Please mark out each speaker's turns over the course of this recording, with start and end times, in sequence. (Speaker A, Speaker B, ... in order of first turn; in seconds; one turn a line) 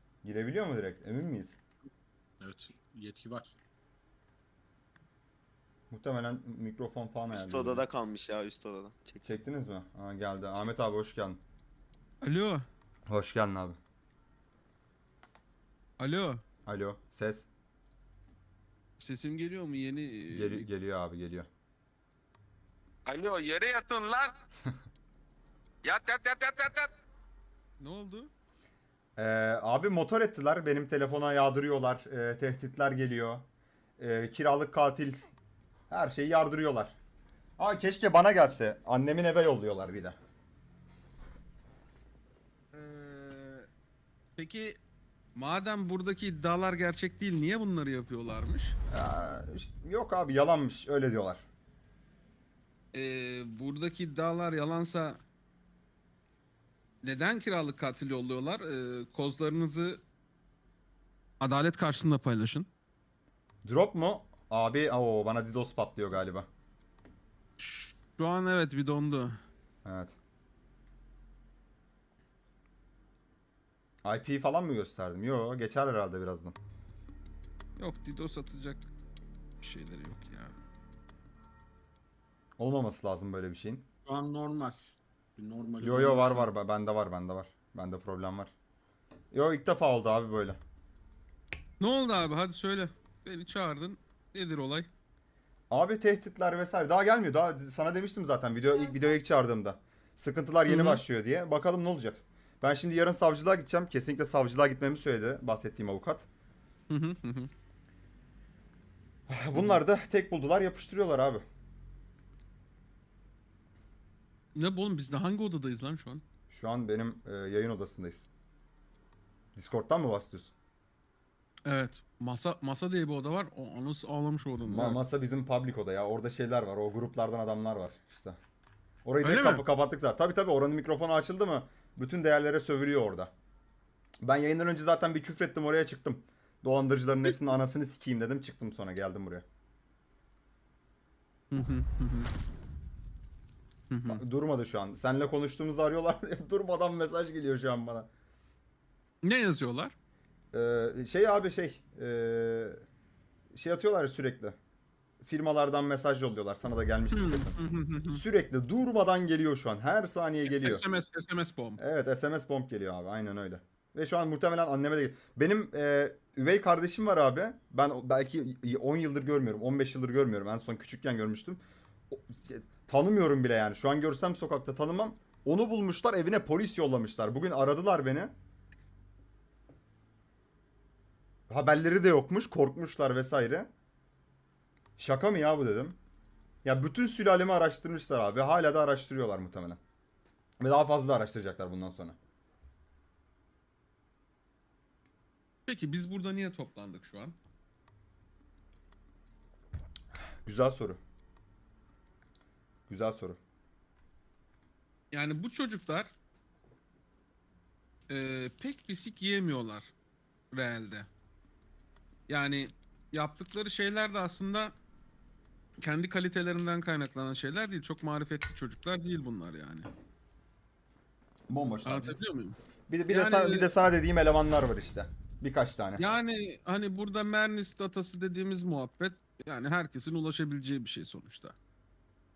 Speaker A: 0.2-1.6
Speaker B: 2.4-3.6
Speaker A: 5.9-7.9
Speaker C: 7.3-9.2
Speaker A: 9.2-11.4
Speaker D: 12.2-12.7
Speaker A: 13.1-13.8
Speaker D: 16.0-16.4
Speaker A: 16.7-17.5
Speaker D: 19.0-20.7
Speaker A: 20.3-21.5
Speaker D: 23.1-24.4
Speaker D: 25.8-26.9
Speaker D: 27.8-28.3
Speaker A: 29.2-33.5
Speaker A: 34.0-35.2
Speaker A: 35.9-37.0
Speaker A: 37.6-40.2
Speaker D: 42.7-43.7
Speaker D: 44.4-44.8
Speaker D: 45.4-48.8
Speaker A: 48.9-51.5
Speaker D: 52.9-55.2
Speaker D: 57.0-60.0
Speaker D: 61.4-62.7
Speaker A: 63.6-66.5
Speaker D: 67.6-69.4
Speaker A: 69.8-70.2
Speaker A: 74.0-76.6
Speaker D: 77.8-78.9
Speaker D: 79.6-80.5
Speaker A: 82.6-83.8
Speaker B: 84.1-86.4
Speaker A: 85.8-88.5
Speaker A: 89.3-90.6
Speaker D: 91.8-94.9
Speaker A: 95.7-106.3
Speaker D: 100.7-101.0
Speaker D: 106.9-107.5
Speaker A: 109.3-111.4
Speaker D: 109.5-109.8
Speaker D: 114.5-116.2
Speaker A: 116.5-118.3
Speaker A: 119.5-120.5
Speaker D: 121.7-125.0
Speaker A: 124.7-128.4
Speaker A: 129.1-133.3
Speaker D: 129.2-129.7
Speaker A: 134.2-139.4
Speaker D: 141.5-142.3
Speaker D: 143.9-144.2
Speaker A: 144.1-148.1
Speaker D: 149.2-149.9
Speaker A: 150.5-152.8
Speaker A: 153.5-154.6
Speaker A: 155.2-157.6
Speaker D: 157.1-158.2
Speaker A: 158.1-160.8
Speaker D: 160.4-161.8
Speaker A: 161.8-178.3
Speaker A: 181.5-183.7
Speaker A: 185.0-186.0
Speaker A: 186.6-189.8
Speaker A: 190.6-192.2
Speaker D: 195.7-197.4
Speaker A: 200.4-201.0
Speaker A: 202.9-203.4
Speaker D: 205.1-206.1
Speaker D: 208.1-209.9
Speaker D: 210.5-211.1
Speaker D: 212.3-214.8
Speaker D: 215.8-219.9
Speaker A: 221.5-222.2
Speaker D: 221.8-222.6
Speaker A: 222.9-226.1
Speaker D: 223.1-223.7
Speaker D: 226.0-231.6